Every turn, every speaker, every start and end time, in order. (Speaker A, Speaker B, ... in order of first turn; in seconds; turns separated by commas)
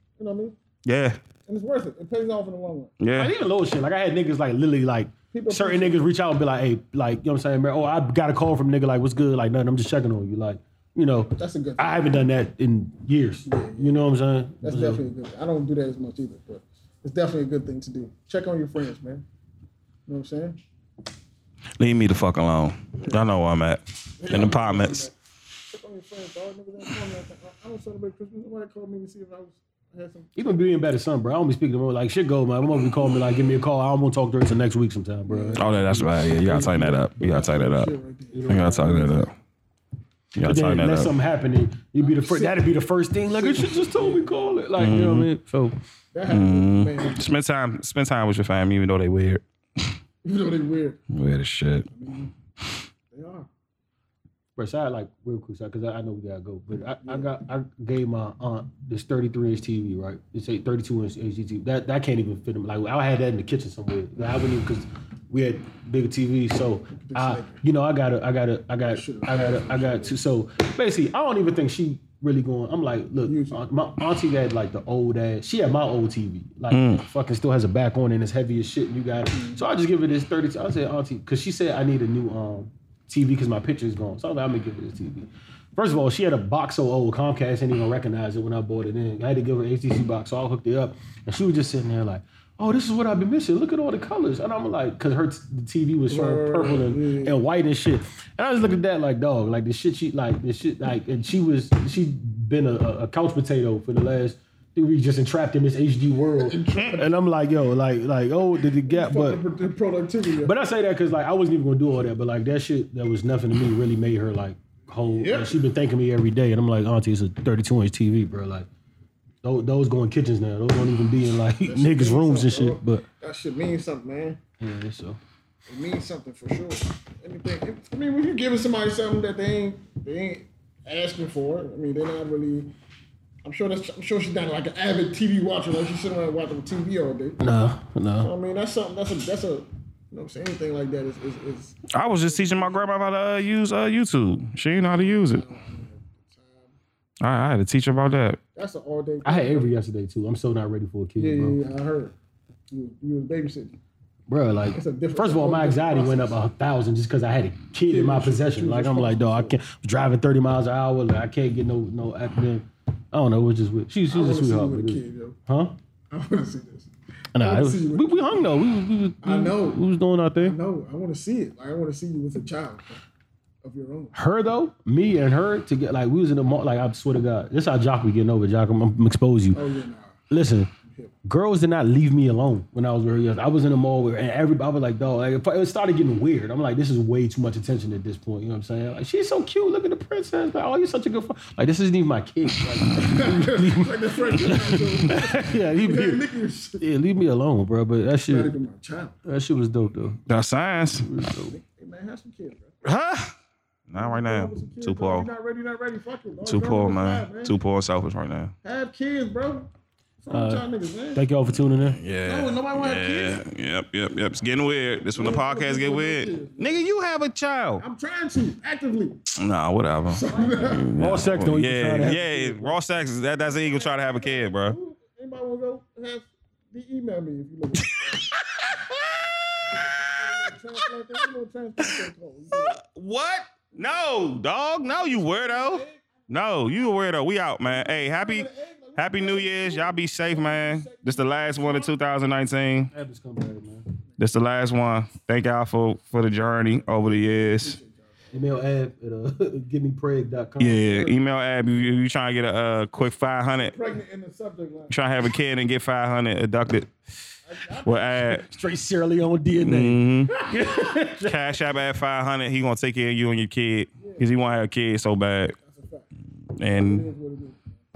Speaker A: 0.2-0.6, Speaker B: 0.8-1.2, Speaker A: 1.5-2.9, Speaker B: 3.0-3.3, Speaker C: 3.1-15.0, Speaker A: 5.3-6.1, Speaker A: 11.3-12.3, Speaker A: 13.4-19.2, Speaker A: 20.1-20.6, Speaker B: 21.8-25.0, Speaker A: 23.0-23.3, Speaker A: 24.2-25.1, Speaker A: 25.7-30.7, Speaker C: 30.4-37.4, Speaker A: 35.2-35.6, Speaker B: 35.6-37.9, Speaker A: 37.2-39.3, Speaker C: 38.3-39.3, Speaker B: 38.5-39.3, Speaker B: 40.4-41.1, Speaker C: 40.4-45.7, Speaker A: 42.0-42.6, Speaker A: 43.2-44.6, Speaker B: 44.8-45.3, Speaker A: 46.1-47.4, Speaker B: 46.3-49.9, Speaker A: 50.2-51.0, Speaker B: 51.1-51.9, Speaker A: 51.9-52.3, Speaker A: 53.1-53.5, Speaker C: 54.5-109.4, Speaker A: 57.0-57.3, Speaker A: 66.9-67.6, Speaker A: 68.8-70.2, Speaker A: 73.2-73.6, Speaker B: 76.7-77.0, Speaker A: 79.3-79.6, Speaker A: 96.1-97.4, Speaker A: 106.3-107.1, Speaker A: 108.9-110.6, Speaker C: 110.4-118.7, Speaker A: 115.1-115.7, Speaker C: 119.4-123.0, Speaker A: 121.6-124.4, Speaker C: 124.6-125.2, Speaker A: 125.7-132.7, Speaker A: 133.4-137.4, Speaker C: 137.4-138.3, Speaker A: 138.2-142.8, Speaker B: 141.9-145.4, Speaker A: 144.8-146.7, Speaker B: 147.2-148.4, Speaker A: 148.5-149.7, Speaker C: 149.2-151.6, Speaker A: 151.2-152.1, Speaker A: 152.7-153.8, Speaker C: 154.3-165.7, Speaker A: 154.7-156.4, Speaker A: 157.9-159.6, Speaker A: 164.1-165.4, Speaker A: 166.1-168.5, Speaker C: 167.3-170.6, Speaker A: 169.2-169.8, Speaker A: 170.4-173.0, Speaker A: 173.6-174.2, Speaker C: 174.1-179.6, Speaker A: 179.5-180.2, Speaker C: 180.3-180.7, Speaker A: 180.8-181.1, Speaker C: 181.2-196.3, Speaker A: 193.0-196.9, Speaker C: 196.8-198.5, Speaker A: 198.3-199.2, Speaker C: 199.2-200.2, Speaker B: 200.3-201.1, Speaker C: 201.0-201.6, Speaker A: 201.5-202.7, Speaker B: 202.8-203.3, Speaker B: 203.9-205.3, Speaker A: 203.9-207.5, Speaker B: 206.4-208.5, Speaker A: 208.6-209.7, Speaker A: 210.2-211.2, Speaker C: 210.3-212.0, Speaker B: 211.8-217.8, Speaker A: 212.2-213.4, Speaker A: 215.1-216.9, Speaker A: 217.8-219.2, Speaker B: 219.3-224.8, Speaker A: 220.1-221.0, Speaker C: 221.0-222.8, Speaker A: 223.4-228.3, Speaker B: 228.1-229.9, Speaker A: 229.7-232.8, Speaker B: 232.5-242.9, Speaker A: 233.7-234.1, Speaker A: 234.8-236.0, Speaker A: 237.6-242.0, Speaker C: 242.9-243.8, Speaker B: 244.2-247.8, Speaker A: 246.7-248.7, Speaker C: 248.3-251.2, Speaker B: 250.6-253.8, Speaker A: 253.6-255.0, Speaker B: 254.9-256.9, Speaker A: 257.4-258.4, Speaker B: 257.8-258.4, Speaker C: 258.2-261.5, Speaker B: 259.6-260.3, Speaker A: 260.6-260.9, Speaker B: 261.3-265.6, Speaker A: 264.0-264.3, Speaker A: 265.6-266.1, Speaker B: 266.6-267.1, Speaker A: 266.7-267.8